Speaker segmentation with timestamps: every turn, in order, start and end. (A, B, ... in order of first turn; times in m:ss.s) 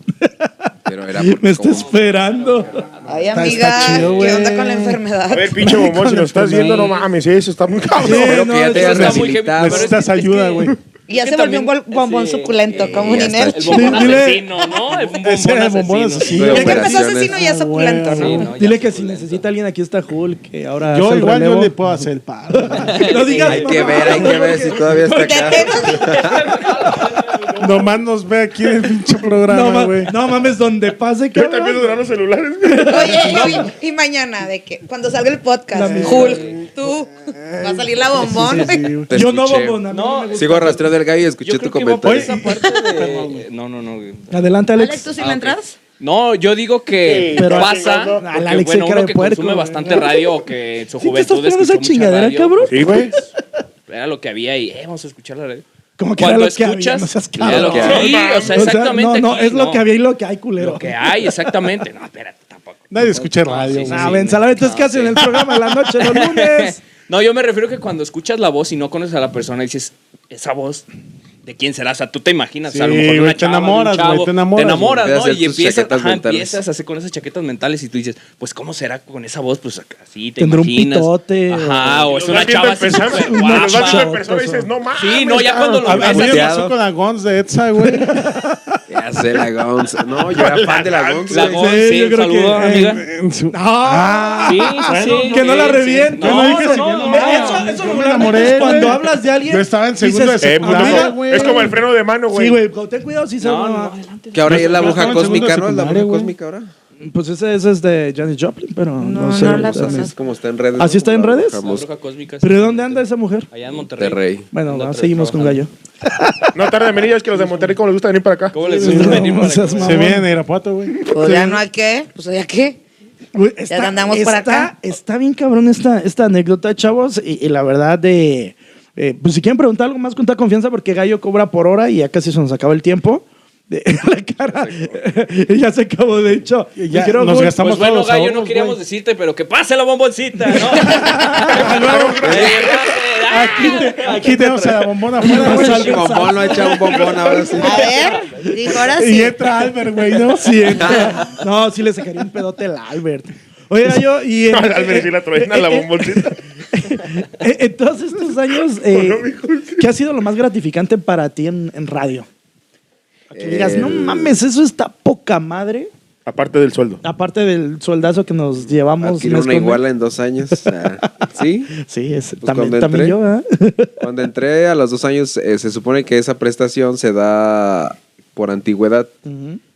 0:00.2-0:02.9 A
0:00.8-0:02.0 B
0:01.7-0:04.5 C
0:03.0-0:05.7 D
0:03.3-0:05.0 E
0:05.3-0:08.8 F
0:05.6-0:07.0 E
0:06.7-0:07.0 C
0:08.0-0:09.2 A
0:08.1-0:10.0 B
0:08.7-0:16.5 C
0:08.8-0:10.8 E
0:11.1-0:14.7 D
0:12.7-0:14.3 B
0:13.7-0:14.4 A
0:15.2-0:18.5 E
0:16.3-0:17.4 B
0:16.4-0:18.5 D
0:16.5-0:17.1 A
0:18.1-0:19.5 C
0:18.4-0:25.0 A
0:20.9-0:22.9 E
0:22.7-0:28.0 C
0:23.4-0:26.4 B
0:25.1-0:26.2 D
0:27.6-0:30.1 E
0:29.5-0:31.9 A
0:31.3-0:33.5 F
0:32.6-0:33.6 A
0:32.8-0:39.0 D
0:33.3-0:33.7 C
0:35.7-0:36.4 A
0:35.8-0:36.7 E
0:36.1-0:36.6 C
0:37.5-0:39.1 E
0:39.0-0:42.3 B
0:39.1-0:40.9 A
0:39.9-0:40.7 C
0:41.4-0:44.4 C
0:42.0-0:43.4 E
0:44.3-0:45.0 A
0:44.7-0:45.8 D
0:45.2-0:53.3 C
0:47.0-0:48.3 F
0:47.4-0:50.3 A
0:51.0-0:53.1 A
0:52.7-0:53.1 F
0:53.9-0:55.6 C
0:56.0-1:01.6 A
0:56.2-0:59.8 C
0:57.4-0:58.1 B
0:57.8-0:58.8 F
1:00.6-1:10.9 C
1:02.9-1:04.2 E
1:03.8-1:06.8 A
1:11.4-1:24.1 C
1:12.7-1:15.0 E
1:15.0-1:16.6 B
1:20.4-1:22.1 A
1:22.0-1:26.4 F
1:23.0-1:24.7 A
1:25.0-1:26.5 C
1:25.8-1:28.4 E
1:26.2-1:26.7 B
1:27.8-1:28.8 A
1:28.9-1:31.7 B
1:30.3-1:31.5 F
1:31.3-1:33.0 C
1:31.4-1:33.0 A
1:32.6-1:41.8 E
1:33.5-1:41.7 A
1:34.4-1:39.0 C
1:40.4-1:42.6 F
1:42.3-1:43.9 A
1:43.4-1:45.5 C
1:44.3-1:46.7 B
1:44.4-1:46.3 E
1:47.0-1:50.1 A
1:49.0-1:50.1 D
1:49.4-1:51.8 B
1:50.8-1:51.6 A
1:51.6-1:55.6 C
1:52.4-1:53.5 A
1:54.0-1:54.4 B
1:54.5-1:56.9 A
1:56.5-1:58.6 F
1:58.5-2:00.1 C
1:58.7-2:00.3 A
1:58.8-1:59.3 E
1:59.8-2:01.6 E
2:01.0-2:02.8 D
2:03.3-2:17.6 A
2:03.7-2:04.7 D
2:16.8-2:18.8 E
2:17.6-2:24.9 C
2:20.4-2:22.4 A
2:21.4-2:23.0 F
2:22.2-2:22.6 B
2:23.3-2:26.3 E
2:25.2-2:28.4 A
2:25.3-2:27.9 B
2:26.6-2:28.3 C
2:27.6-2:29.4 D
2:28.8-2:31.1 E
2:30.0-2:42.3 A
2:30.8-2:31.2 B
2:34.5-2:36.4 F
2:38.8-2:39.9 F
2:43.3-2:44.4 B
2:43.3-2:45.9 A
2:46.2-2:47.0 F
2:47.0-2:49.8 A
2:49.0-2:51.7 B
2:50.5-2:53.9 A
2:52.4-2:53.2 B
2:54.0-2:59.1 B
2:59.2-2:59.6 A